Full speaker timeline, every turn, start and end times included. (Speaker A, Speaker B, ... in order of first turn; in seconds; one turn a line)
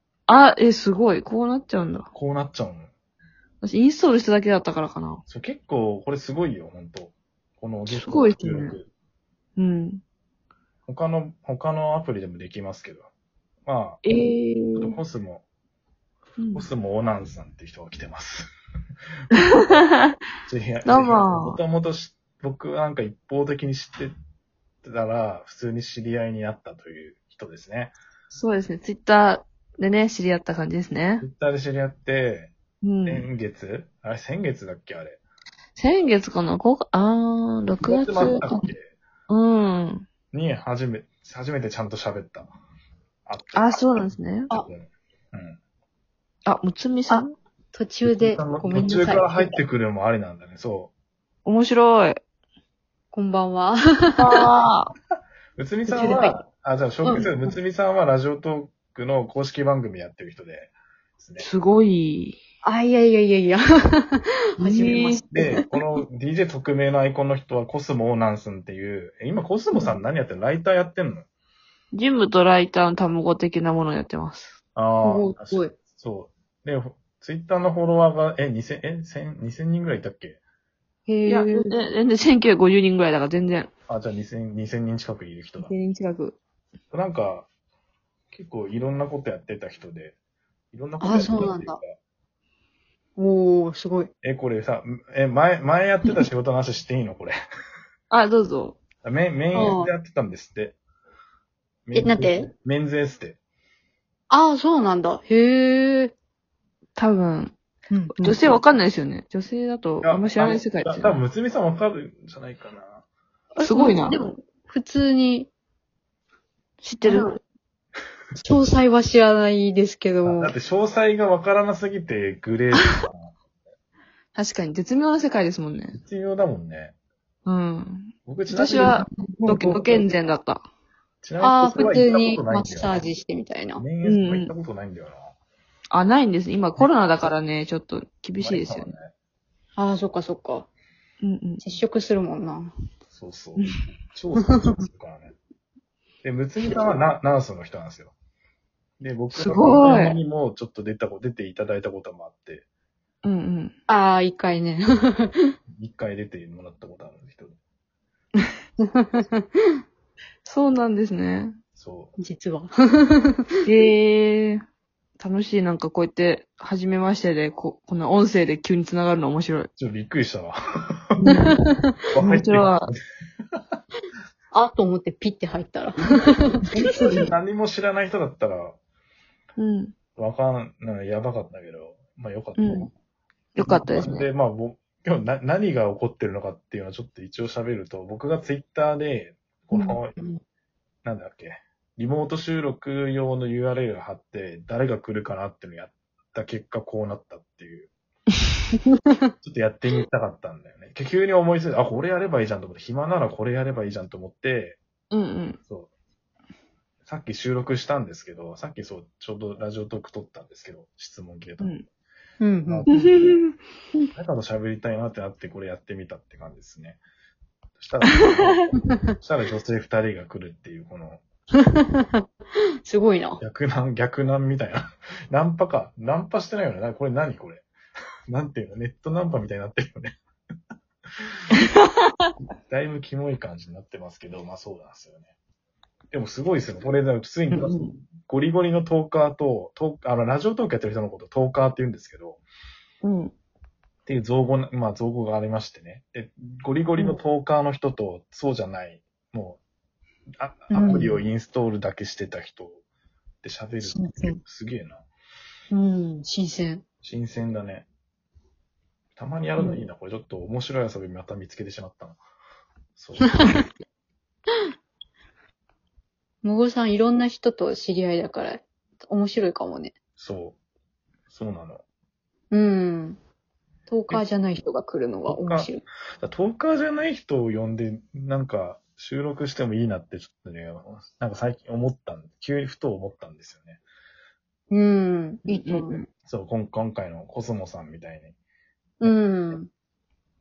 Speaker A: 0.3-2.1
Speaker B: 2.1-2.9
Speaker A: 3.6-5.2
Speaker B: 5.3-8.9
Speaker A: 7.9-8.8
Speaker A: 9.6-10.0
Speaker B: 10.9-13.1
Speaker B: 13.7-14.0
Speaker A: 14.0-14.9
Speaker B: 14.8-15.4
Speaker A: 16.4-16.7
Speaker B: 16.5-18.5
Speaker A: 19.4-20.1
Speaker B: 20.5-24.1
Speaker A: 20.9-21.6
Speaker B: 24.8-27.9
Speaker A: 28.3-31.3
Speaker B: 31.2-32.5
Speaker A: 32.8-33.3
Speaker B: 33.1-35.2
Speaker A: 35.8-38.6
Speaker B: 37.8-38.9
Speaker A: 39.3-40.1
Speaker B: 40.3-42.5
Speaker B: 43.3-45.6
Speaker A: 43.5-44.5
Speaker A: 46.5-47.3
Speaker C: 47.1-49.6
Speaker B: 48.0-50.9
Speaker A: 51.5-52.2
Speaker C: 53.1-54.4
Speaker A: 54.2-54.9
Speaker B: 55.6-61.5
Speaker C: 55.9-56.4
Speaker A: 61.4-62.4
Speaker C: 62.6-65.5
Speaker A: 64.6-65.2
Speaker B: 65.3-71.3
Speaker A: 71.9-74.6
Speaker B: 74.8-80.4
Speaker C: 75.0-75.8
Speaker C: 81.1-81.7
Speaker A: 81.3-83.7
Speaker B: 83.9-85.7
Speaker A: 85.6-86.4
Speaker B: 86.9-87.5
Speaker B: 88.3-90.2
Speaker B: 90.7-92.0
Speaker C: 91.0-91.8
Speaker C: 93.2-94.1
Speaker B: 94.2-97.3
Speaker A: 98.1-98.8
Speaker B: 99.0-100.8
Speaker C: 99.5-99.9
Speaker B: 101.9-103.4
Speaker C: 101.9-102.5
Speaker C: 104.3-106.1
Speaker A: 107.0-107.5
Speaker C: 107.9-108.4
Speaker A: 108.2-111.2
Speaker B: 110.0-113.0
Speaker A: 113.6-114.3
Speaker C: 113.6-115.5
Speaker A: 116.8-117.4
Speaker C: 117.0-117.3
Speaker C: 118.4-120.5
Speaker B: 120.2-123.3
Speaker A: 124.3-126.0
Speaker B: 125.9-127.0
Speaker A: 127.5-130.6
Speaker B: 128.3-130.1
Speaker B: 131.2-133.1
Speaker C: 131.4-133.8
Speaker B: 133.8-135.3
Speaker A: 134.0-134.5
Speaker A: 135.9-138.9
Speaker B: 138.4-139.1
Speaker C: 139.8-140.7
Speaker A: 141.2-141.6
Speaker C: 141.6-142.7
Speaker B: 143.1-145.3
Speaker C: 144.4-144.8
Speaker B: 146.2-148.1
Speaker B: 149.0-152.7
Speaker A: 149.3-150.2
Speaker A: 153.2-153.7
Speaker C: 153.9-155.5
Speaker B: 155.8-157.6
Speaker C: 158.8-159.4
Speaker A: 160.4-161.6
Speaker B: 161.8-162.1
Speaker C: 162.2-163.4
Speaker A: 163.7-164.6
Speaker A: 165.2-169.7
Speaker B: 169.8-171.2
Speaker A: 171.2-171.6
Speaker C: 171.2-171.9
Speaker B: 172.1-173.0
Speaker A: 172.2-172.9
Speaker C: 174.5-176.6
Speaker A: 176.7-177.3
Speaker B: 176.7-178.8
Speaker A: 179.6-179.9
Speaker B: 180.2-182.9
Speaker A: 182.6-182.9
Speaker A: 183.6-184.3
Speaker B: 183.6-190.2
Speaker B: 191.0-197.9
Speaker C: 198.8-199.3
Speaker B: 199.4-204.8
Speaker A: 205.1-205.6
Speaker B: 207.1-211.8
Speaker A: 211.6-211.8
Speaker C: 212.4-212.9
Speaker B: 212.7-213.3
Speaker A: 212.9-214.1
Speaker B: 214.2-217.0
Speaker B: 217.8-221.2
Speaker C: 218.8-219.1
Speaker C: 221.6-222.3
Speaker C: 222.9-223.4
Speaker B: 223.4-227.7
Speaker B: 228.3-230.2
Speaker B: 232.6-235.3
Speaker B: 236.1-242.4
Speaker A: 237.5-238.0
Speaker A: 243.0-243.3
Speaker B: 244.1-249.6
Speaker B: 250.4-252.8
Speaker C: 250.7-251.1
Speaker B: 253.4-255.0
Speaker C: 253.8-254.4
Speaker C: 255.7-256.8
Speaker B: 257.0-257.9
Speaker B: 259.2-262.2
Speaker B: 263.0-263.6
Speaker C: 263.2-263.6
Speaker C: 266.4-269.9
Speaker B: 270.2-270.6
Speaker B: 271.3-271.8
Speaker C: 272.5-273.2
Speaker C: 273.9-275.8
Speaker B: 275.3-275.7
Speaker B: 276.2-283.8
Speaker C: 284.7-286.0
Speaker A: 285.5-286.0
Speaker B: 286.2-288.4
Speaker C: 289.0-289.7
Speaker B: 289.0-289.5